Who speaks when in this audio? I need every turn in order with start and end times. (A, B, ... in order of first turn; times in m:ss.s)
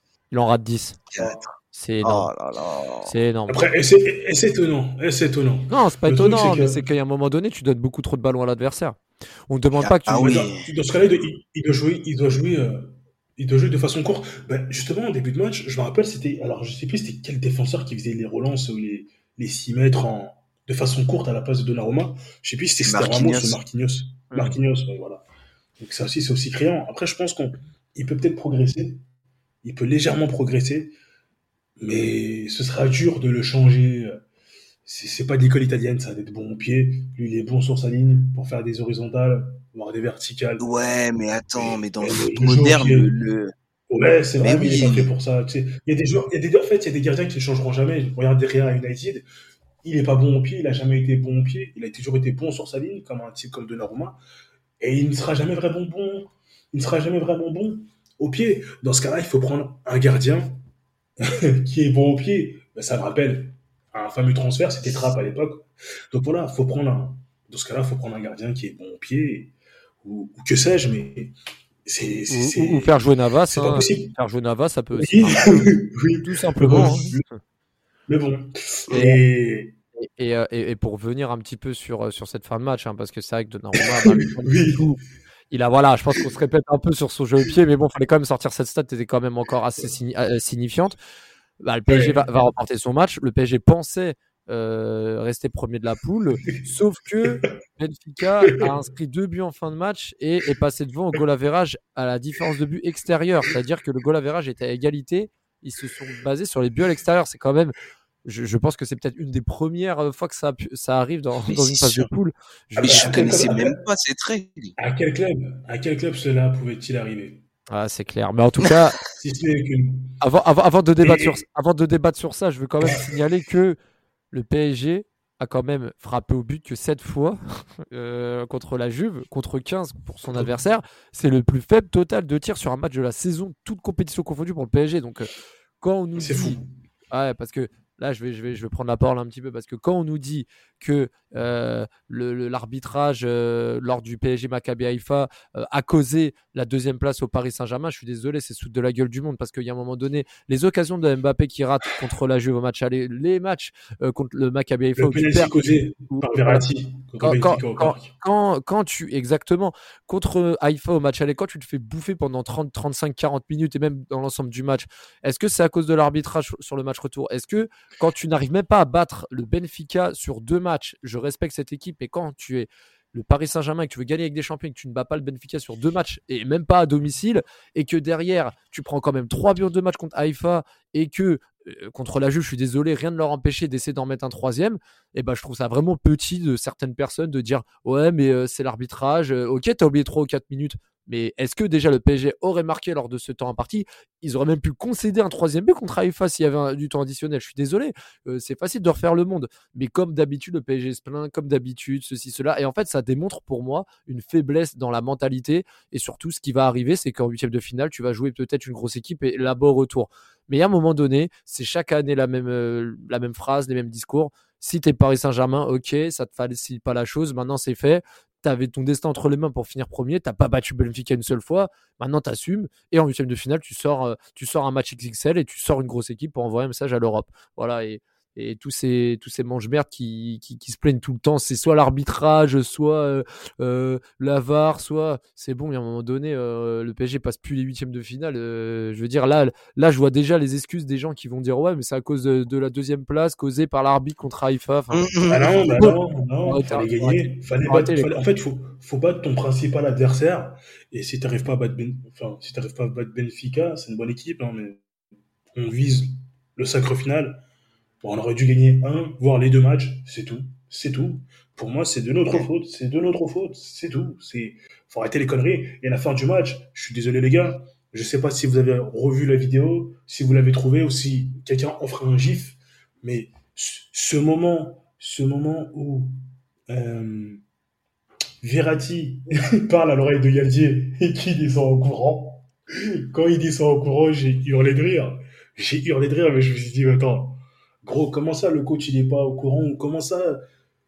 0:00.3-0:01.1 A
0:01.1-0:01.5 B
0:01.7-0:02.3 A
0:02.0-0:03.1 B
0:03.1-0:03.6 A
0:03.5-0:06.9 C
0:05.7-0:09.0 A
0:09.5-0:10.4 A
0:09.8-0:10.7 B
0:10.2-0:25.2 C
0:22.8-0:23.6 B
0:24.3-0:24.6 A
0:25.8-0:29.0 C
0:29.6-0:30.9 C
0:31.8-0:34.2 C
0:34.9-0:40.9 C
0:40.6-0:43.5 B
0:41.6-0:43.2 C
0:43.9-0:49.3 C
0:44.4-0:45.1 B
0:49.8-0:54.2 C
0:54.8-1:00.6 C
1:01.2-1:09.5 C
1:10.0-1:11.3 C
1:11.8-1:12.9 C
1:12.3-1:17.4 A
1:13.5-1:14.1 C
1:15.0-1:17.2 C
1:18.1-1:19.8 C
1:18.9-1:19.2 A
1:20.0-1:25.0 A
1:23.8-1:24.9 C
1:25.5-1:31.0 A
1:31.6-1:53.1 A
1:31.9-1:32.3 C
1:51.5-1:52.1 B
1:52.8-1:54.7 B
1:52.8-1:53.8 C
1:54.8-1:57.4 C
1:57.7-1:59.0 A
1:59.1-2:00.2 C
2:00.2-2:03.8 A
2:01.0-2:01.4 C
2:04.3-2:16.6 A
2:16.2-2:16.6 C
2:17.1-2:36.6 A
2:35.0-2:38.1 C
2:37.2-4:05.1 A
4:04.9-4:05.5 B
4:05.3-4:14.8 C
4:05.7-4:05.9 A
4:06.4-4:08.1 A
4:15.6-4:17.4 C
4:18.0-4:36.2 C
4:36.7-4:37.4 C
4:38.4-4:50.4 C